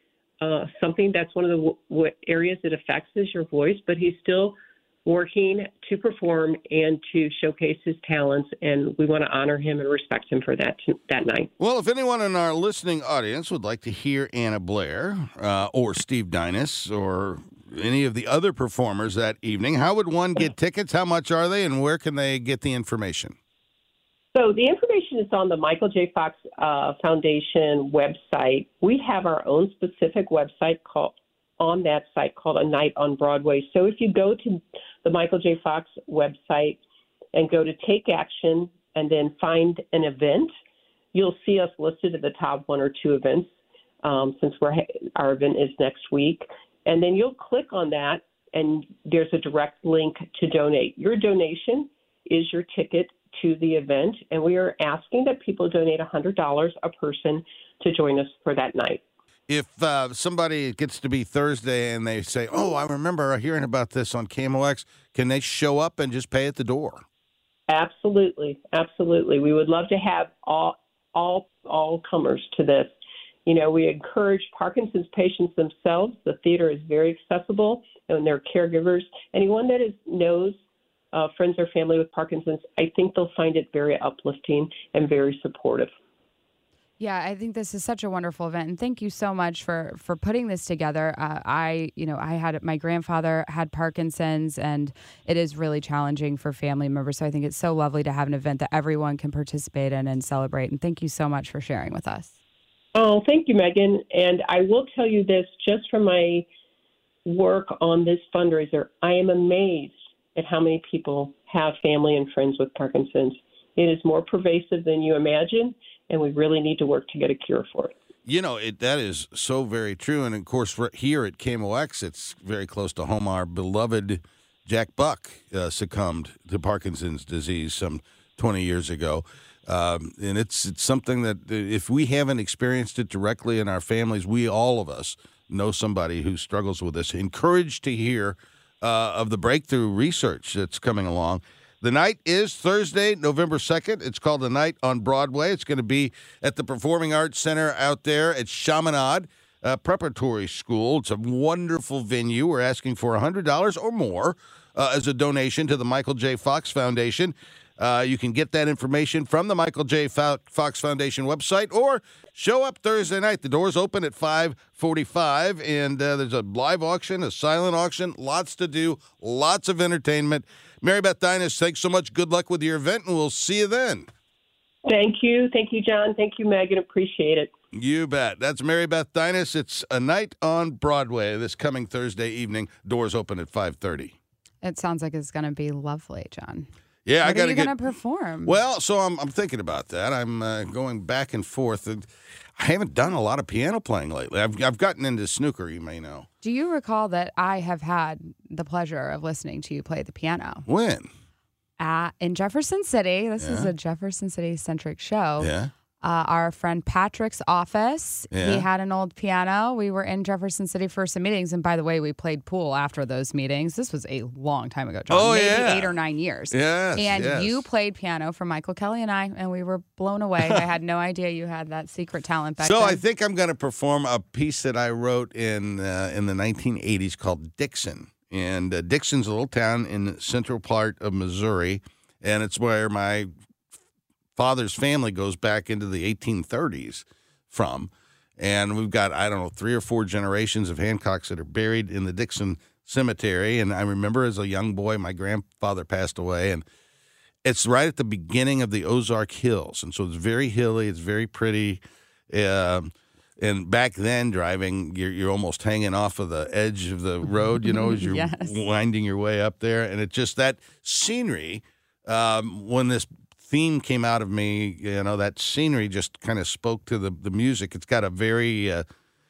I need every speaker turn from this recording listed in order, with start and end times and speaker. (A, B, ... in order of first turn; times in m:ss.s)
0:00.4-0:11.5 A
0:11.6-0:23.4 B
0:24.3-0:36.8 A
0:37.3-0:40.5 A
0:41.1-0:43.5 A
0:44.0-0:59.0 A
0:59.5-1:07.0 B
1:07.7-1:20.6 A
1:21.1-1:25.9 A
1:27.0-1:42.3 C
1:43.0-1:46.5 A
1:47.2-1:57.9 A
1:58.3-2:54.1 B
2:54.9-2:57.5 A
2:57.7-3:04.2 B
3:04.6-3:06.7 C
3:07.0-3:07.8 B
3:07.2-3:08.6 C
3:08.4-3:16.3 B
3:16.4-3:20.6 C
3:20.7-3:21.1 B
3:21.8-3:43.0 C
3:23.4-3:23.7 B
3:25.4-3:25.7 B
3:28.3-3:28.7 B
3:35.1-3:36.0 B
3:36.5-3:37.6 B
3:42.6-3:53.3 B
3:54.4-4:06.6 B
4:07.4-4:28.8 B
4:17.6-4:18.6 C